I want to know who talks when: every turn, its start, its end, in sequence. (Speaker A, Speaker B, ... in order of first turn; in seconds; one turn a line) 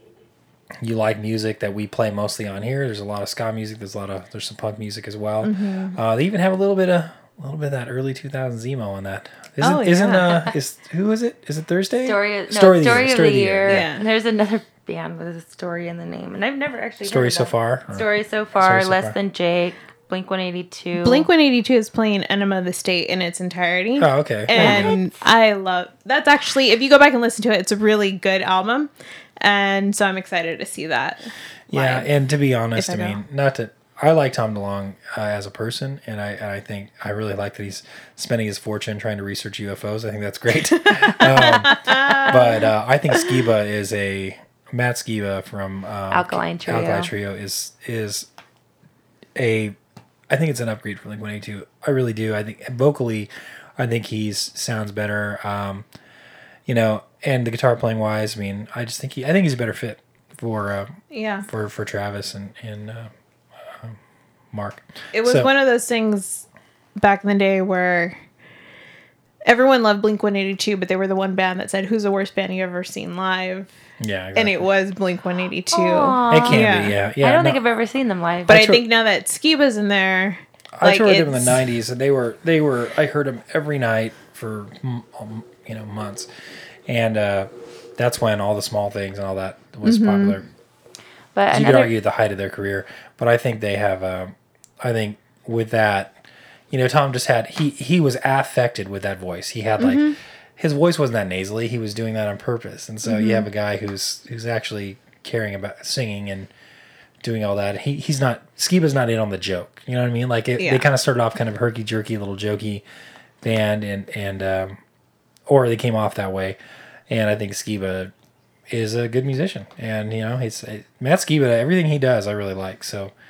Speaker A: 0.8-13.8
Speaker B: 5.4-6.0
Speaker B: 9.6-10.5
Speaker C: 12.0-21.3
Speaker B: 13.7-14.0
Speaker A: 17.0-18.1
Speaker A: 18.6-19.1
Speaker B: 21.0-32.1
Speaker A: 24.0-24.9
Speaker C: 24.5-25.2
Speaker A: 31.7-48.3
Speaker B: 32.7-33.2
Speaker B: 40.8-42.7
Speaker C: 46.1-47.1
Speaker A: 49.4-49.7
Speaker A: 50.3-55.9
Speaker A: 56.7-63.1
Speaker B: 61.1-61.5
Speaker A: 63.6-64.0
Speaker A: 64.5-65.5
Speaker B: 65.1-66.5
Speaker B: 67.0-68.2
Speaker B: 69.5-73.7
Speaker A: 74.0-74.6
Speaker B: 74.3-77.0
Speaker C: 75.7-78.6
Speaker A: 76.3-77.6
Speaker A: 78.5-78.8
Speaker B: 78.5-81.6
Speaker A: 80.8-86.3
Speaker A: 86.9-90.4
Speaker B: 89.8-90.4
Speaker C: 91.3-91.9
Speaker A: 91.5-96.2
Speaker A: 96.7-106.5
Speaker B: 99.8-100.2
Speaker B: 103.0-103.5
Speaker A: 107.2-112.8
Speaker B: 110.6-110.8
Speaker A: 113.4-114.8
Speaker A: 115.5-116.6
Speaker A: 117.1-118.1
Speaker A: 118.7-123.1